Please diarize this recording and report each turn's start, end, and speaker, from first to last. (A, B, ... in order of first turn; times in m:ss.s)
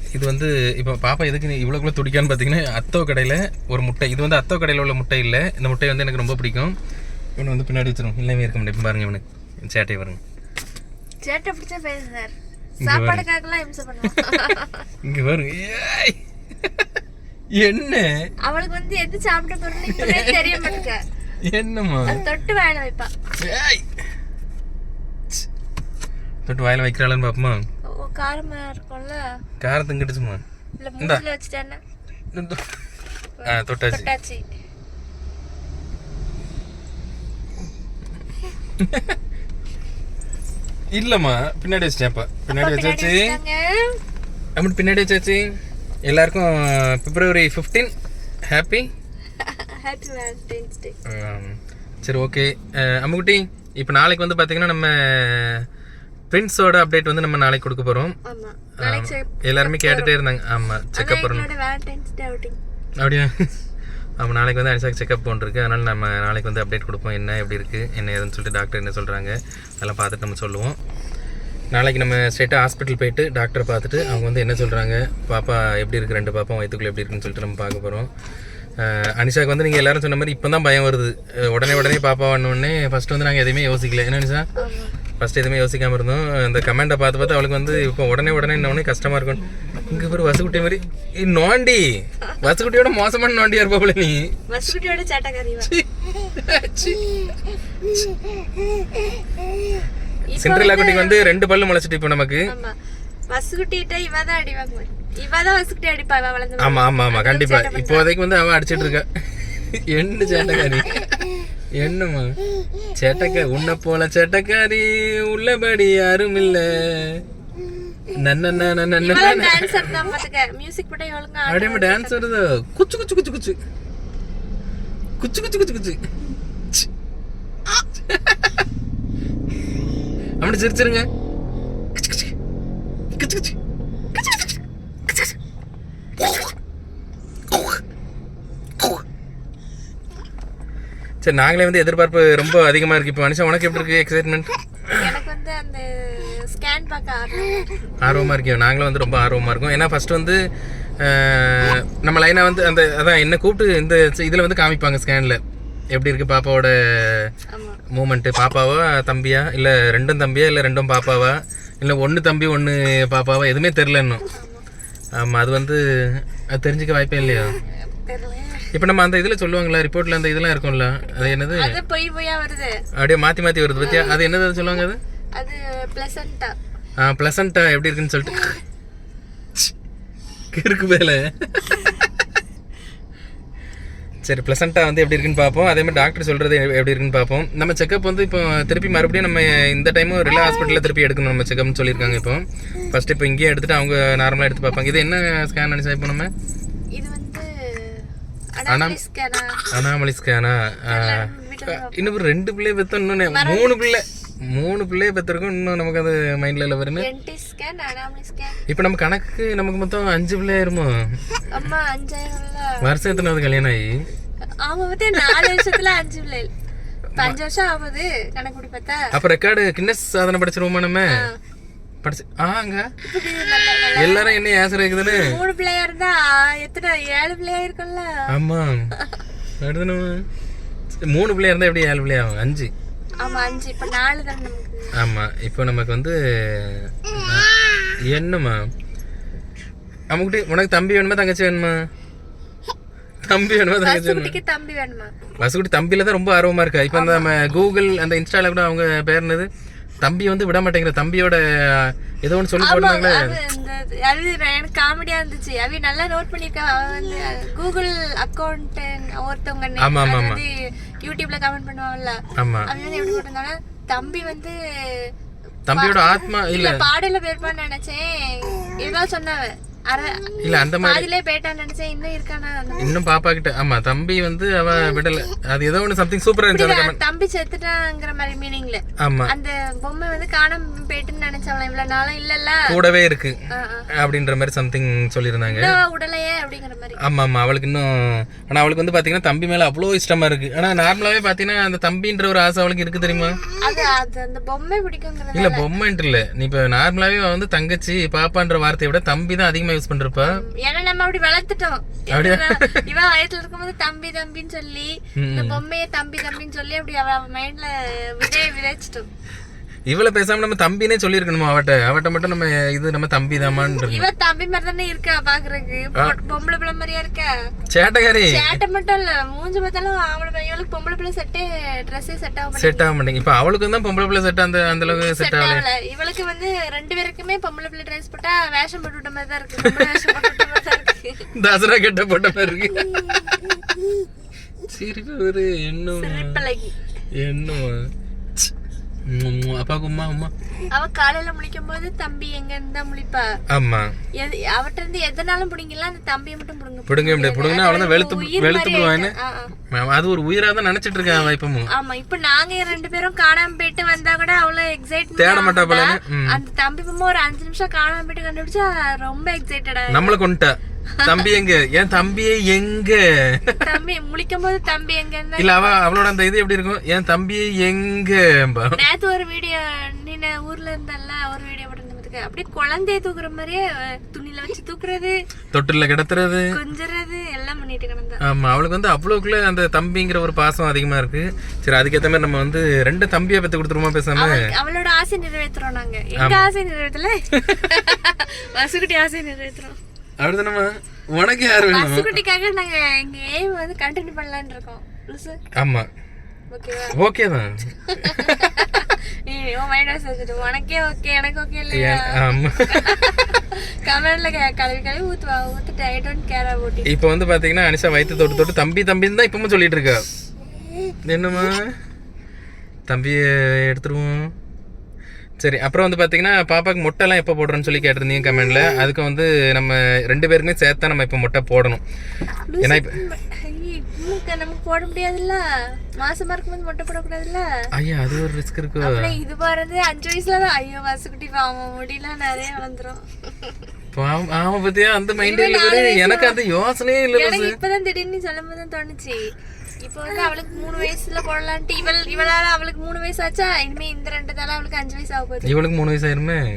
0:00.1-0:06.8 A
0:07.4-0:10.2 A
0:11.2-0:14.9 B
0:12.8-0:13.2 A
0:15.0-0:16.9 A
0:17.6-0:18.3 A
0:18.4-0:21.0 B
0:19.9-0:20.8 A
0:21.4-0:22.2 A
0:22.1-0:23.1 B
0:23.4-0:23.9 A
0:26.5-0:27.6 A
0:27.8-0:29.2 B
0:29.6-0:30.4 A
0:30.8-0:31.8 B
0:32.3-0:32.6 A
0:33.4-0:34.5 B
0:33.4-0:34.1 A
0:38.8-0:39.2 A
0:40.9-0:43.4 A
0:42.5-0:44.0 B
0:44.6-0:45.5 A
0:46.1-0:47.9 A
0:48.5-0:48.9 A
0:49.4-0:51.0 B
0:51.1-0:55.7 A
0:56.3-0:58.2 A
0:58.2-1:00.1 B
0:58.8-1:01.5 A
1:01.0-1:02.6 B
1:03.0-1:03.5 A
1:04.2-1:10.8 A
1:11.7-1:18.1 A
1:18.8-1:24.5 A
1:24.6-1:25.0 B
1:25.2-1:31.9 A
1:32.4-1:34.4 A
1:34.5-1:35.7 B
1:35.7-1:37.0 A
1:40.3-1:41.4 B
1:40.4-1:42.5 A
1:42.5-1:42.8 B
1:43.3-1:48.1 B
1:46.6-1:51.2 A
1:51.7-1:52.4 A
1:53.0-1:57.2 A
1:58.1-2:00.0 A
1:59.0-2:02.3 B
2:01.5-2:03.6 A
2:05.2-2:06.0 A
2:07.7-2:08.6 A
2:10.4-2:11.1 A
2:12.0-2:12.3 A
2:13.2-2:13.6 A
2:14.2-2:14.5 A
2:21.2-2:25.0 A
2:24.9-2:27.8 B
2:28.0-2:30.4 A
2:31.0-2:35.4 A
2:35.9-2:37.3 A
2:37.5-2:37.8 B
2:37.9-2:44.3 A
2:44.3-2:44.7 B
2:45.2-2:47.6 A
2:47.4-2:48.7 B
2:48.7-2:51.8 A
2:51.0-2:52.8 B
2:53.0-2:55.0 A
2:53.8-2:54.2 B
2:55.3-2:56.6 B
2:57.0-2:58.6 A
3:00.5-3:02.0 A
3:04.2-3:16.3 A
3:16.9-3:19.6 B
3:18.7-3:19.0 A
3:19.7-3:27.1 A
3:20.9-3:22.2 B
3:23.3-3:23.7 B
3:27.0-3:28.6 B
3:28.7-3:31.6 A
3:31.5-3:32.9 B
3:32.8-3:34.0 A
3:34.6-3:36.5 B
3:35.2-3:35.7 A
3:37.2-3:39.1 B
3:39.1-3:41.2 A
3:41.1-3:41.4 B
3:42.0-3:42.9 A
3:43.0-3:44.4 B
3:44.0-3:45.4 A
3:45.0-3:48.1 B
3:48.3-3:48.9 A
3:49.0-3:49.2 B
3:49.6-3:50.3 A
3:51.0-3:52.7 A
3:53.2-3:54.9 B
3:55.0-3:57.5 A
3:58.1-3:58.7 A
4:00.1-4:01.9 A
4:03.3-4:04.4 A
4:03.8-4:05.1 B
4:05.4-4:09.5 A
4:06.9-4:07.3 B
4:10.0-4:13.4 A
4:12.6-4:25.1 B
4:19.8-4:20.4 A
4:22.4-4:22.7 A
4:25.7-4:26.8 A
4:25.7-4:32.9 B
4:30.4-4:31.1 A
4:32.8-4:37.0 A
4:36.5-4:42.8 B
4:39.0-4:39.3 A
4:42.7-4:43.4 A
4:43.5-4:43.9 B
4:43.9-4:45.8 A
4:45.5-4:47.0 B
4:47.0-4:53.4 A
4:53.6-4:55.7 B
4:55.3-5:00.4 A
5:00.2-5:09.1 B
5:02.1-5:02.8 A
5:05.2-5:05.6 A
5:09.9-5:14.1 A
5:13.8-5:17.3 B
5:17.7-5:18.6 A
5:18.2-5:22.9 B
5:22.6-5:25.6 A
5:24.9-5:31.3 B
5:31.3-5:33.3 A
5:34.7-5:36.4 A
5:36.0-5:36.8 B
5:37.2-5:38.5 A
5:39.1-5:40.3 A
5:40.7-5:43.3 B
5:43.5-5:44.0 A
5:44.2-5:49.5 B
5:46.9-5:49.1 A
5:49.7-5:51.7 A
5:51.7-6:00.2 B
5:55.2-5:56.4 A
5:59.9-6:03.7 A
6:01.0-6:01.3 B
6:03.6-6:05.8 B
6:05.4-6:08.8 A
6:08.7-6:15.2 B
6:15.5-6:16.6 A
6:16.5-6:18.2 B
6:18.2-6:24.5 A
6:24.2-6:29.8 B
6:26.2-6:26.5 A
6:30.2-6:32.2 A
6:31.7-6:35.4 B
6:35.6-6:35.9 A
6:36.5-6:37.0 B
6:36.9-6:38.7 A
6:37.9-6:46.9 B
6:41.7-6:43.1 A
6:46.9-6:50.1 A
6:51.1-6:51.8 A
6:52.9-6:54.3 A
6:55.4-7:01.8 A
7:02.5-7:05.4 B
7:02.6-7:03.0 A
7:06.0-7:07.5 B
7:07.7-7:09.2 A
7:08.8-7:13.6 B
7:13.9-7:17.6 A
7:15.2-7:16.4 B
7:17.1-7:25.6 B
7:25.4-7:26.5 A